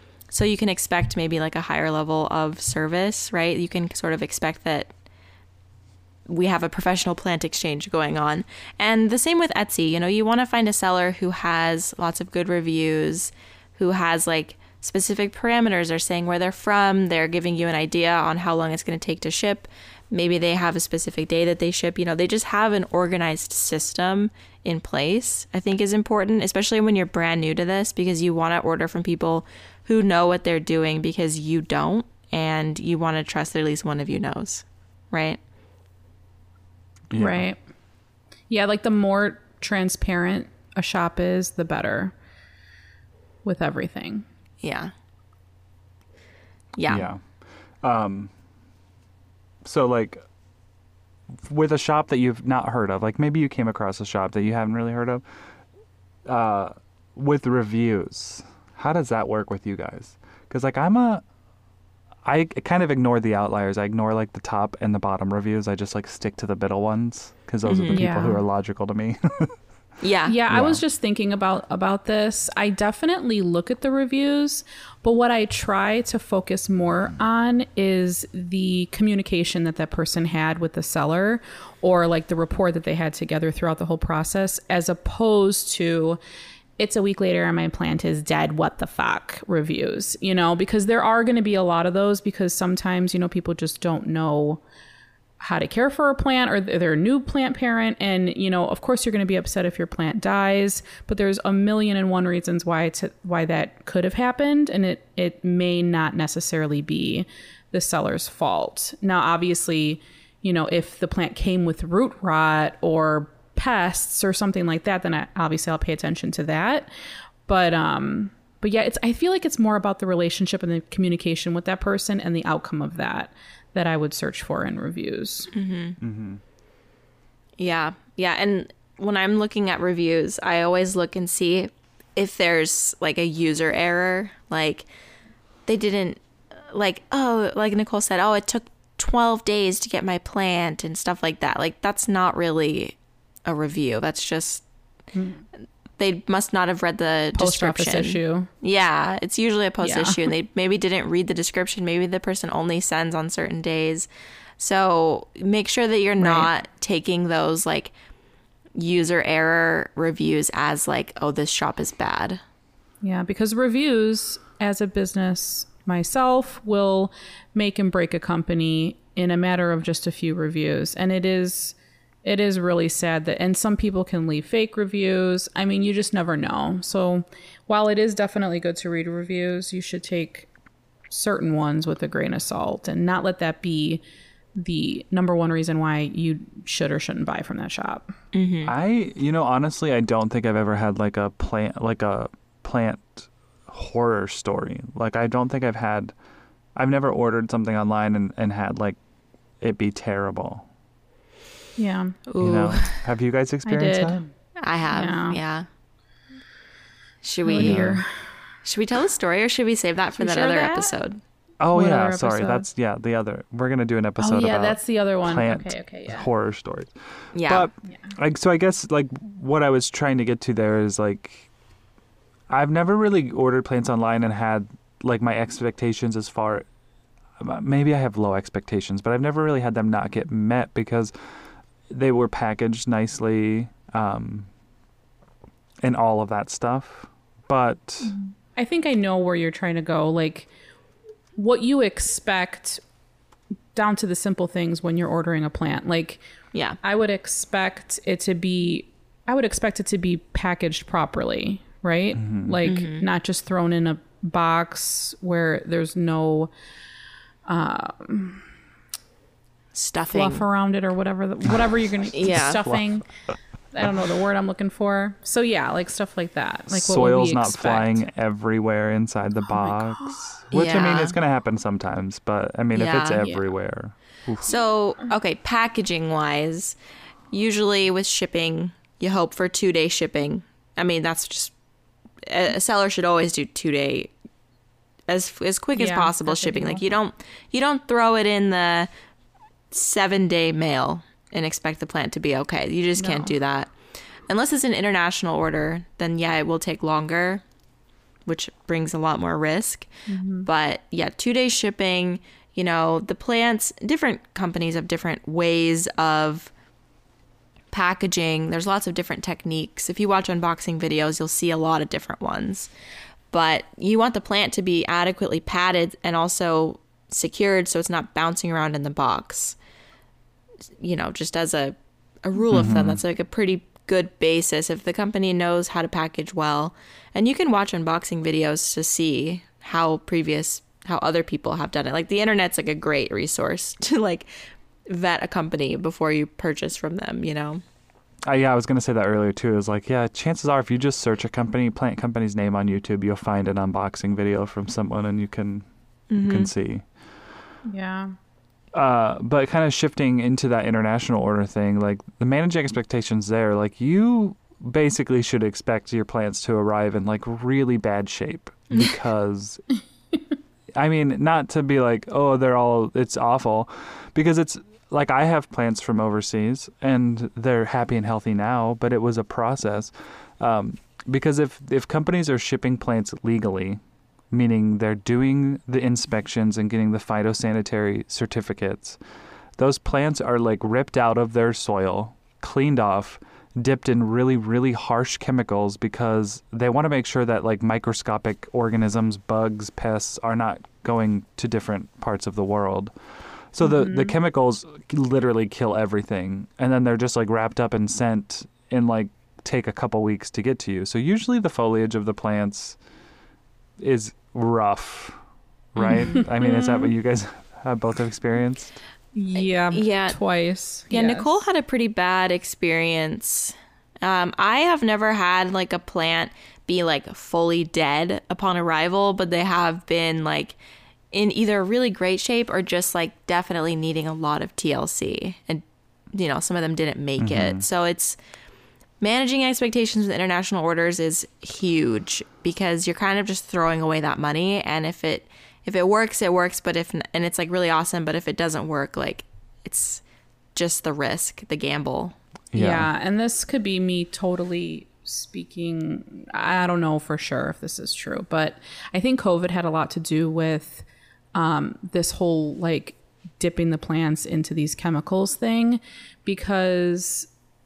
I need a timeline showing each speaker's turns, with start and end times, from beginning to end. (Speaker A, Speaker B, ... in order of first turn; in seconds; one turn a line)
Speaker A: 0.3-4.9
Speaker A: 6.3-35.4
Speaker B: 37.1-37.5
Speaker C: 37.1-37.6
Speaker C: 38.5-42.1
Speaker C: 43.4-44.2
Speaker A: 44.6-44.9
Speaker A: 46.8-47.0
Speaker B: 46.9-47.2
Speaker B: 47.8-48.3
Speaker B: 49.6-50.2
Speaker B: 51.3-55.2
Speaker B: 56.2-61.2
Speaker B: 62.2-69.5
Speaker A: 67.6-68.1
Speaker C: 67.9-68.4
Speaker A: 70.0-70.4
Speaker C: 70.2-86.2
Speaker B: 70.5-70.8
Speaker C: 86.8-94.6
Speaker C: 95.4-116.9
Speaker C: 117.5-125.5
Speaker A: 125.5-126.0
Speaker B: 126.0-126.4
Speaker A: 127.6-134.8
Speaker A: 135.7-142.9
Speaker A: 143.4-144.6
Speaker C: 145.1-145.4
Speaker A: 146.0-154.1
Speaker C: 147.3-148.5
Speaker C: 149.8-150.3
Speaker A: 154.6-157.9
Speaker C: 156.2-156.5
Speaker A: 158.7-162.4
Speaker C: 163.0-180.5
Speaker C: 181.1-184.0
Speaker C: 184.6-188.1
Speaker A: 188.3-188.7
Speaker B: 188.6-196.1
Speaker B: 196.8-199.0
Speaker B: 199.6-200.7
Speaker C: 201.8-202.2
Speaker A: 202.3-203.0
Speaker B: 202.4-204.2
Speaker C: 203.6-204.2
Speaker A: 204.6-205.7
Speaker C: 204.9-205.4
Speaker A: 207.2-208.0
Speaker C: 207.4-208.1
Speaker B: 207.6-208.0
Speaker A: 208.6-211.2
Speaker C: 210.2-210.9
Speaker B: 211.6-216.9
Speaker C: 211.7-212.6
Speaker C: 214.2-216.2
Speaker A: 217.3-217.7
Speaker B: 217.4-221.4
Speaker B: 222.5-226.7
Speaker B: 227.4-231.1
Speaker B: 231.9-234.5
Speaker B: 235.8-238.1
Speaker C: 238.1-240.5
Speaker C: 241.3-242.8
Speaker C: 243.7-246.2
Speaker A: 246.5-246.8
Speaker C: 246.8-256.5
Speaker B: 252.2-252.6
Speaker A: 252.6-253.1
Speaker C: 257.4-258.4
Speaker A: 259.7-260.4
Speaker C: 260.1-263.1
Speaker A: 262.1-262.6
Speaker C: 263.7-268.0
Speaker B: 266.7-274.5
Speaker C: 269.5-270.2
Speaker A: 270.5-271.1
Speaker A: 272.7-273.4
Speaker A: 274.4-276.8
Speaker A: 277.3-281.5
Speaker A: 282.3-284.1
Speaker A: 285.1-288.9
Speaker C: 285.7-286.8
Speaker A: 289.7-293.7
Speaker C: 293.0-293.3
Speaker A: 294.3-297.4
Speaker A: 298.2-299.9
Speaker C: 300.1-300.5
Speaker A: 300.4-306.5
Speaker A: 307.7-312.7
Speaker A: 313.3-319.6
Speaker A: 320.8-334.3
Speaker B: 322.5-323.0
Speaker A: 334.9-337.6
Speaker B: 338.2-345.6
Speaker A: 346.1-346.5
Speaker B: 346.2-346.8
Speaker C: 347.7-348.1
Speaker B: 348.7-359.6
Speaker A: 358.7-358.9
Speaker B: 360.8-373.8
Speaker B: 374.3-379.0
Speaker B: 379.6-392.9
Speaker B: 393.5-402.8
Speaker C: 393.6-394.1
Speaker B: 403.8-405.2
Speaker B: 405.7-408.8
Speaker C: 405.8-406.9
Speaker A: 405.8-406.2
Speaker C: 409.1-411.3
Speaker A: 409.3-410.2
Speaker A: 410.9-420.6
Speaker A: 421.1-428.2
Speaker B: 427.2-427.6
Speaker A: 429.0-440.0
Speaker A: 440.5-442.1
Speaker B: 442.5-442.9
Speaker C: 442.5-457.3